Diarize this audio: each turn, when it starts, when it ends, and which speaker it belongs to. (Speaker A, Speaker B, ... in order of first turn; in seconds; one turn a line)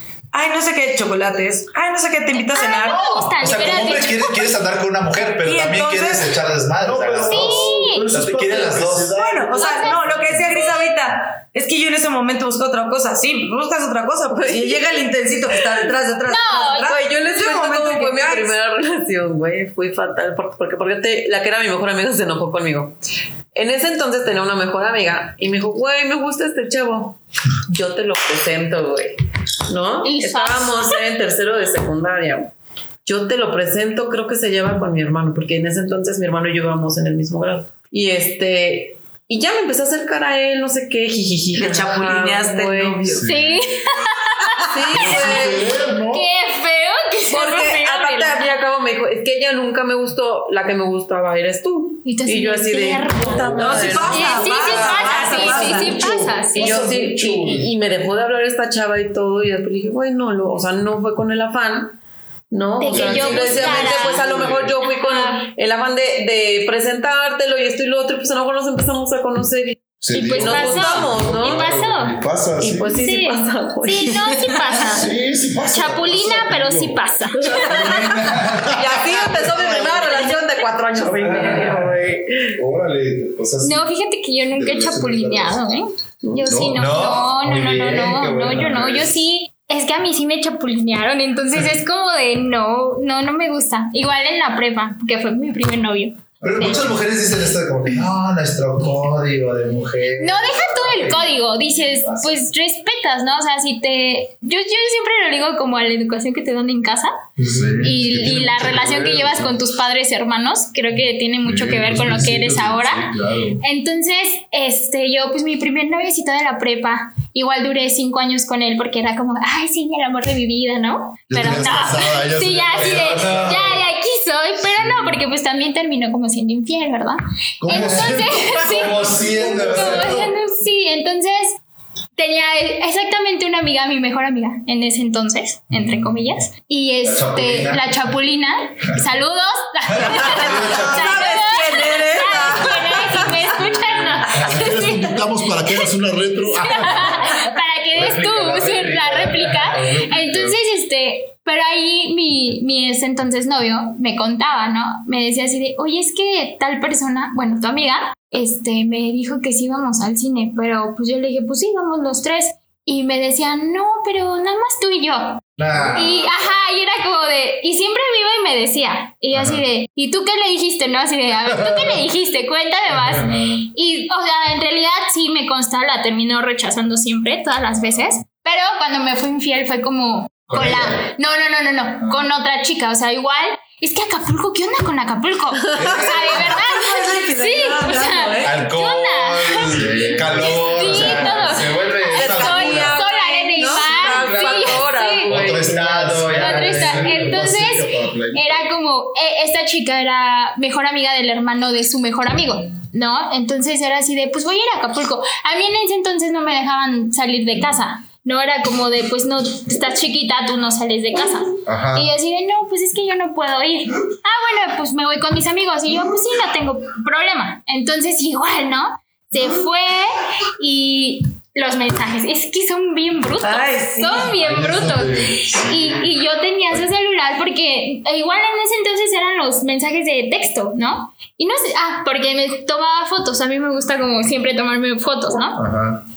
Speaker A: 0.3-3.3
Speaker B: 2.4-4.5
Speaker C: 3.4-9.2
Speaker A: 5.4-6.4
Speaker D: 6.8-10.8
Speaker B: 7.3-8.1
Speaker A: 9.2-18.6
Speaker B: 9.5-10.0
Speaker E: 14.3-15.0
Speaker B: 16.3-17.0
Speaker E: 16.9-23.0
Speaker E: 23.5-27.2
Speaker E: 27.7-29.1
Speaker E: 29.7-32.5
Speaker B: 30.0-31.0
Speaker E: 33.0-43.2
Speaker A: 41.6-43.3
Speaker D: 43.1-43.6
Speaker B: 43.3-48.6
Speaker E: 44.7-45.8
Speaker D: 44.9-46.3
Speaker E: 47.3-62.0
Speaker B: 52.0-56.9
Speaker D: 53.3-54.4
Speaker A: 53.6-56.0
Speaker D: 54.9-57.7
Speaker C: 56.8-57.6
Speaker E: 62.5-71.7
Speaker B: 62.8-65.5
Speaker D: 62.9-64.8
Speaker D: 70.0-73.0
Speaker B: 70.1-72.2
Speaker E: 72.6-74.9
Speaker B: 72.9-78.3
Speaker D: 74.8-77.0
Speaker E: 77.4-78.0
Speaker D: 77.7-80.1
Speaker C: 77.7-80.2
Speaker E: 78.6-82.5
Speaker D: 81.1-82.0
Speaker C: 81.1-81.9
Speaker D: 82.5-83.8
Speaker B: 83.6-96.8
Speaker D: 84.5-85.6
Speaker D: 86.5-86.9
Speaker C: 86.7-89.1
Speaker C: 96.4-102.4
Speaker B: 100.2-107.1
Speaker C: 107.4-107.9
Speaker D: 107.5-109.5
Speaker B: 107.8-131.6
Speaker D: 111.5-113.6
Speaker D: 121.3-123.5
Speaker C: 122.8-123.8
Speaker D: 127.6-130.3
Speaker C: 127.7-130.3
Speaker B: 132.2-145.9
Speaker C: 137.1-137.9
Speaker C: 140.0-141.2
Speaker E: 140.4-143.8
Speaker A: 140.6-143.2
Speaker C: 144.3-144.7
Speaker D: 144.4-147.4
Speaker B: 146.6-195.3
Speaker C: 148.0-150.5
Speaker C: 165.6-166.5
Speaker D: 171.5-172.0
Speaker C: 173.1-173.5
Speaker C: 180.5-181.0
Speaker E: 185.7-186.4
Speaker C: 185.7-186.4
Speaker A: 186.3-188.6
Speaker C: 188.4-193.0
Speaker D: 189.7-191.6
Speaker E: 192.1-196.4
Speaker C: 194.0-197.4
Speaker D: 195.4-198.7
Speaker B: 196.3-235.6
Speaker D: 211.7-212.1
Speaker A: 223.4-224.3
Speaker D: 224.1-226.1
Speaker D: 235.6-236.0